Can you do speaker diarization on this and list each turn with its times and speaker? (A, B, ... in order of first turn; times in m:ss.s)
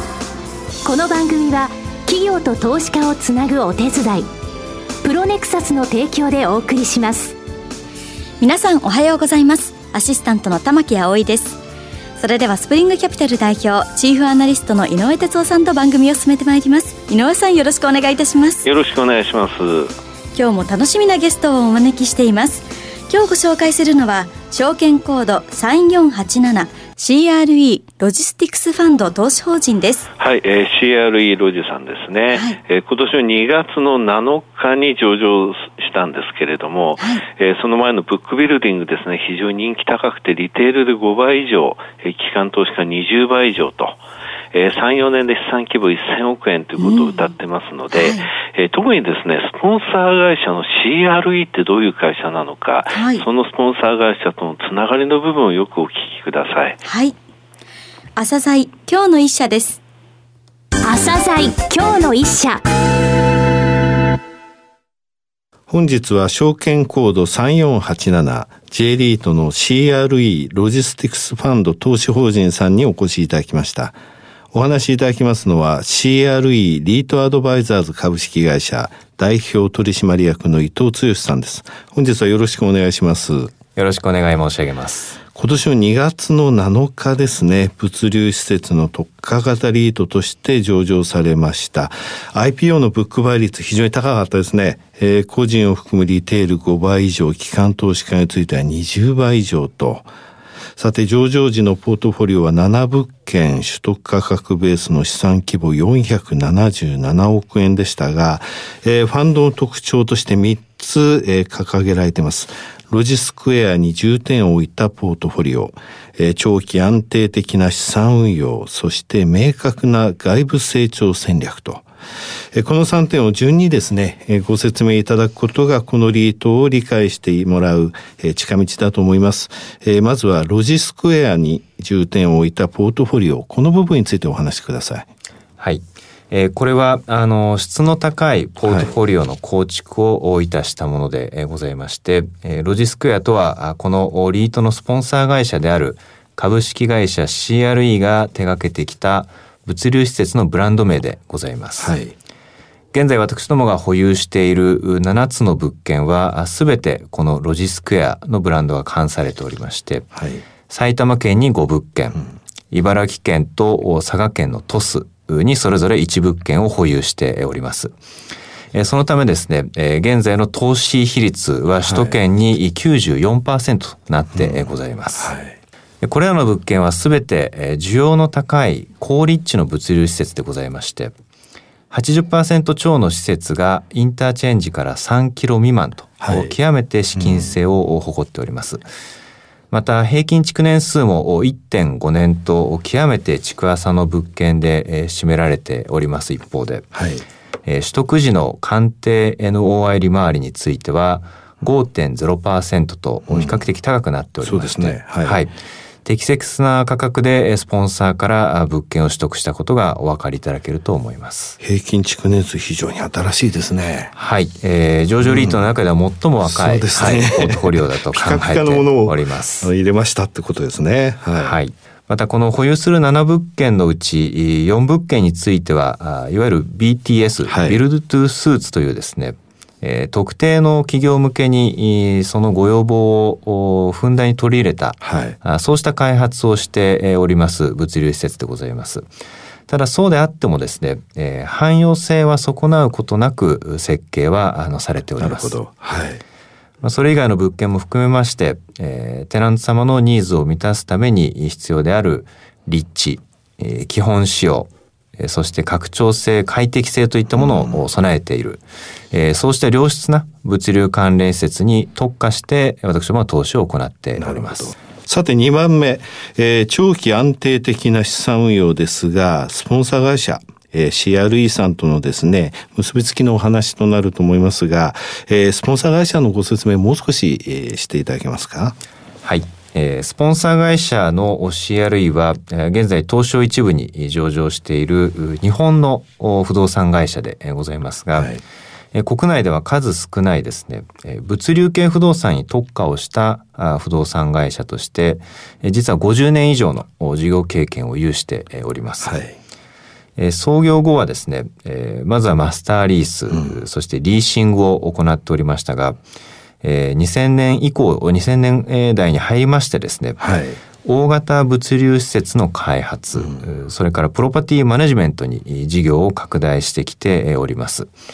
0:00.8-0:04.3 A
0:05.0-0:07.4 A
0:08.4-0:11.6 B
0:12.2-0:18.6 B
0:18.6-0:19.9 C
0:20.3-0:30.1 B
0:30.2-0:44.0 C
0:44.5-0:56.8 C
0:46.8-0:47.2 B
0:47.9-0:48.3 B
0:52.9-0:53.2 B
0:56.8-0:57.1 B
0:58.2-0:59.8 B
1:00.8-1:02.6 A
1:05.7-1:14.0 D
1:14.5-1:23.5 D
1:23.7-1:25.2 E
1:25.3-1:40.1 D
1:40.8-2:01.8 D
2:02.5-2:15.1 D
2:15.6-2:31.9 E
2:18.6-2:18.9 D
2:31.8-2:32.1 D
2:32.9-2:47.9 E
2:40.1-2:40.4 D
2:48.7-2:55.3 E
2:51.8-2:52.2 D
2:54.3-2:55.6 D
2:56.0-3:01.1 E
3:01.9-3:08.8 E
3:06.2-3:06.6 D
3:07.1-3:07.6 D
3:09.7-3:16.9 E
3:16.9-3:17.2 D
3:17.6-3:25.5 E
3:23.3-3:23.6 D
3:24.4-3:25.4 D
3:26.0-3:31.6 E
3:31.6-3:34.1 D
3:34.1-3:39.7 E
3:35.2-3:35.7 D
3:36.4-3:41.6 D
3:41.4-3:59.1 E
3:47.5-3:47.8 D
3:55.0-3:55.4 D
3:59.7-4:05.6 E
4:05.2-4:06.2 D
4:06.8-4:24.7 E
4:17.4-4:17.8 D
4:24.2-4:38.8 D
4:39.2-4:48.3 E
4:48.1-4:48.4 D
4:48.9-4:59.2 E
4:59.0-4:59.4 D
5:00.2-5:06.0 E
5:03.3-5:03.6 D
5:06.6-5:10.2 E
5:10.2-5:10.6 D
5:10.8-5:17.9 E
5:13.1-5:13.4 D